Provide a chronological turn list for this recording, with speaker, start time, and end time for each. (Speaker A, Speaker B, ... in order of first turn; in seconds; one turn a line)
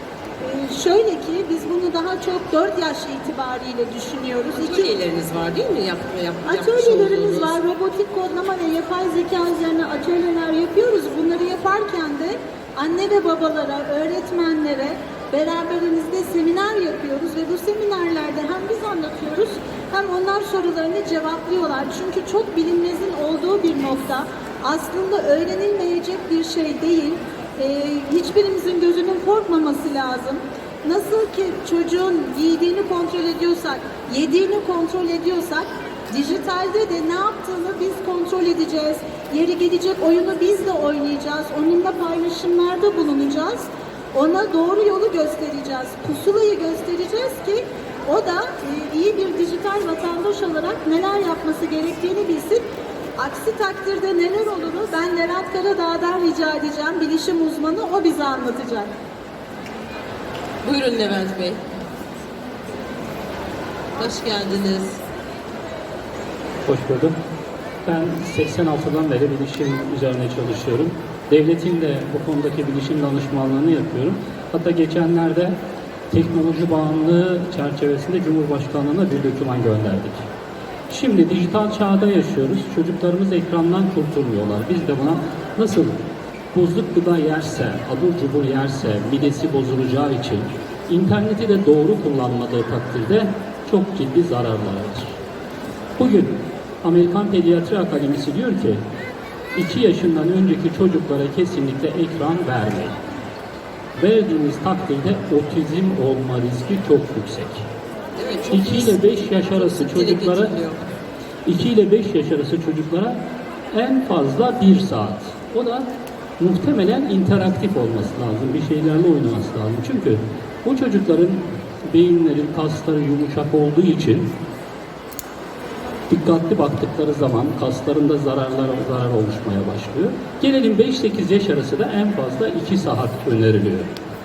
Speaker A: 0.4-5.0
Speaker B: 4.5-7.6
Speaker A: 6.5-52.6
Speaker A: 53.2-58.9
Speaker B: 60.6-61.6
Speaker B: 64.0-65.0
Speaker C: 66.7-67.2
Speaker C: 67.8-75.6
Speaker C: 76.1-80.3
Speaker C: 80.9-86.0
Speaker C: 86.5-95.2
Speaker C: 96.0-98.8
Speaker C: 99.5-103.0
Speaker C: 104.0-107.7
Speaker B: 108.2-110.8
Speaker C: 108.5-110.6
Speaker C: 111.5-124.4
Speaker C: 126.1-134.0